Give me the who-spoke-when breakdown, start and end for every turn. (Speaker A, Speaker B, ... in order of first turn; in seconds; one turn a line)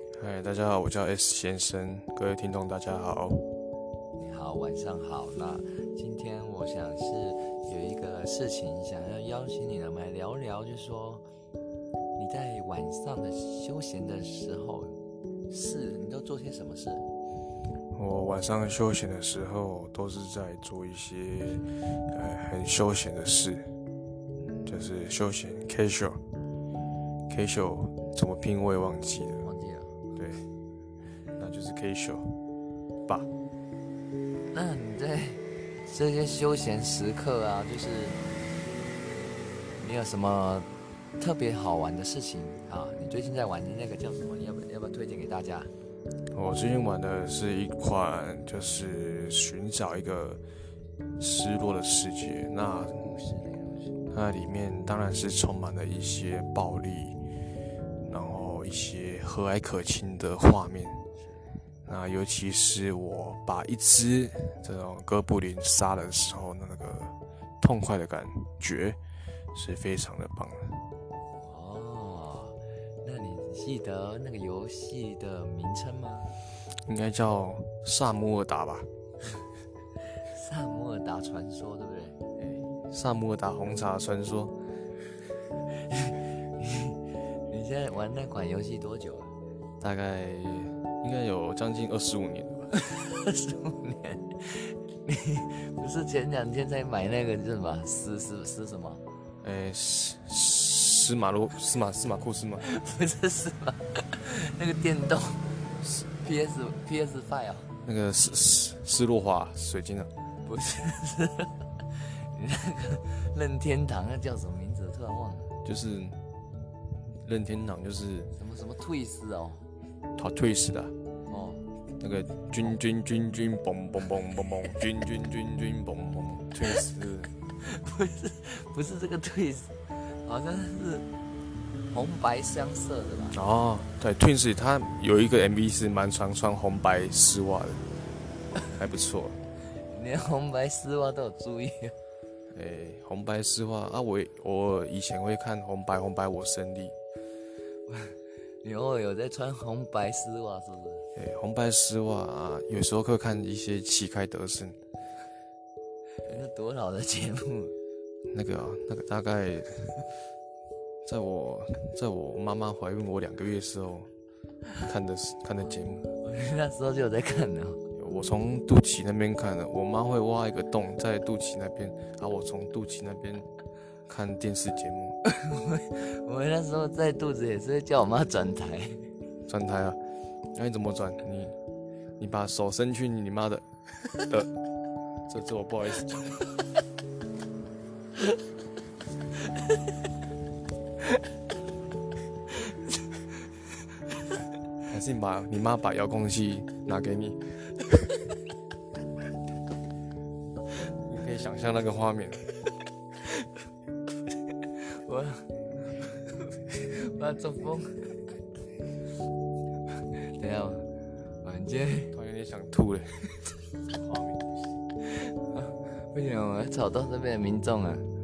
Speaker A: 0.1-3.5
Speaker B: 4.2-11.2
Speaker B: 12.2-15.0
Speaker B: 15.5-17.1
Speaker A: 17.9-23.7
Speaker A: 24.6-26.2
Speaker A: 27.3-29.5
Speaker B: 29.4-29.9
Speaker A: 30.1-30.5
Speaker A: 31.4-32.4
Speaker B: 34.5-38.2
Speaker B: 39.8-40.7
Speaker B: 41.2-45.7
Speaker A: 46.3-50.4
Speaker A: 51.2-53.1
Speaker B: 53.0-54.1
Speaker A: 54.1-57.2
Speaker A: 58.1-61.0
Speaker A: 61.9-69.0
Speaker A: 69.5-70.8
Speaker B: 71.4-76.4
Speaker A: 76.7-78.9
Speaker B: 80.1-82.2
Speaker A: 82.4-84.5
Speaker B: 85.7-89.3
Speaker A: 89.8-92.7
Speaker B: 92.7-99.0
Speaker A: 99.4-102.7
Speaker B: 102.6-107.7
Speaker A: 107.8-110.1
Speaker B: 110.4-115.5
Speaker A: 115.7-116.2
Speaker A: 117.1-118.3
Speaker B: 118.3-119.7
Speaker A: 120.2-120.9
Speaker B: 121.3-121.7
Speaker A: 122.0-127.3
Speaker B: 127.5-131.1
Speaker B: 131.9-133.4
Speaker A: 133.3-137.9
Speaker A: 138.7-139.4
Speaker B: 139.7-141.9
Speaker A: 142.5-146.9
Speaker B: 147.9-151.1
Speaker A: 151.2-154.8
Speaker B: 156.2-157.7
Speaker A: 158.3-160.0
Speaker A: 161.1-164.1
Speaker A: 164.8-166.1
Speaker B: 166.1-167.8
Speaker A: 167.9-173.5
Speaker A: 174.1-175.2
Speaker B: 175.2-179.1
Speaker A: 179.5-180.0
Speaker A: 180.5-181.6
Speaker A: 182.2-183.7
Speaker A: 184.2-184.5
Speaker A: 185.3-186.4
Speaker A: 194.8-197.6
Speaker A: 201.0-202.5
Speaker B: 203.2-203.6
Speaker B: 204.5-208.2
Speaker B: 209.9-212.1
Speaker A: 212.1-213.3
Speaker A: 214.0-214.6
Speaker B: 214.8-218.1